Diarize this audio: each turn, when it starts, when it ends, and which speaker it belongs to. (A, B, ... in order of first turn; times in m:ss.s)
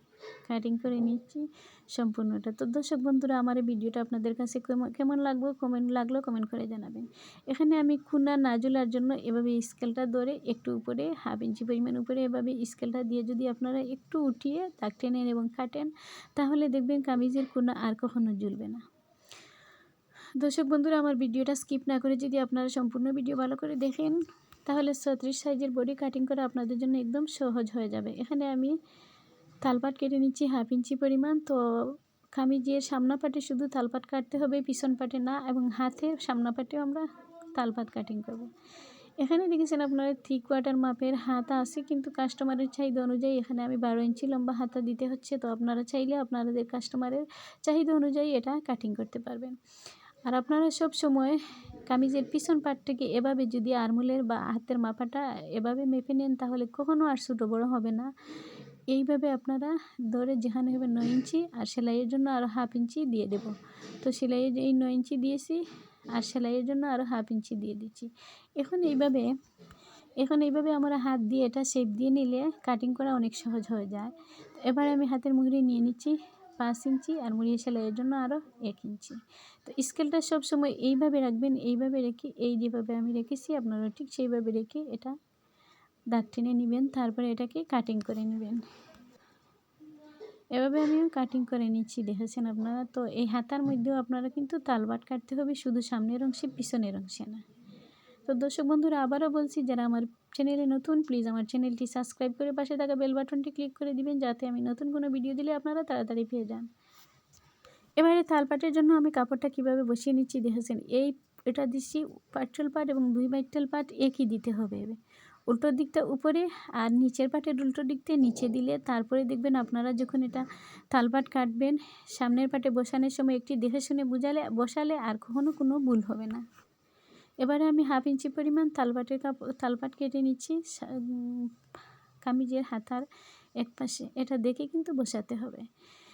0:00.4-0:18.8 A
0:20.4-0:28.8 A
0:29.6-0:38.5 A
0:39.2-0:49.6 A
0:50.2-0:58.1 A
0:58.9-1:05.6 A
1:06.1-1:09.3 A
1:10.2-1:25.2 A
1:26.1-1:28.6 A
1:30.5-1:37.4 A
1:38.3-1:46.7 A
1:48.0-2:06.4 A
2:07.4-2:11.5 A
2:12.2-2:13.1 A
2:13.6-2:15.7 A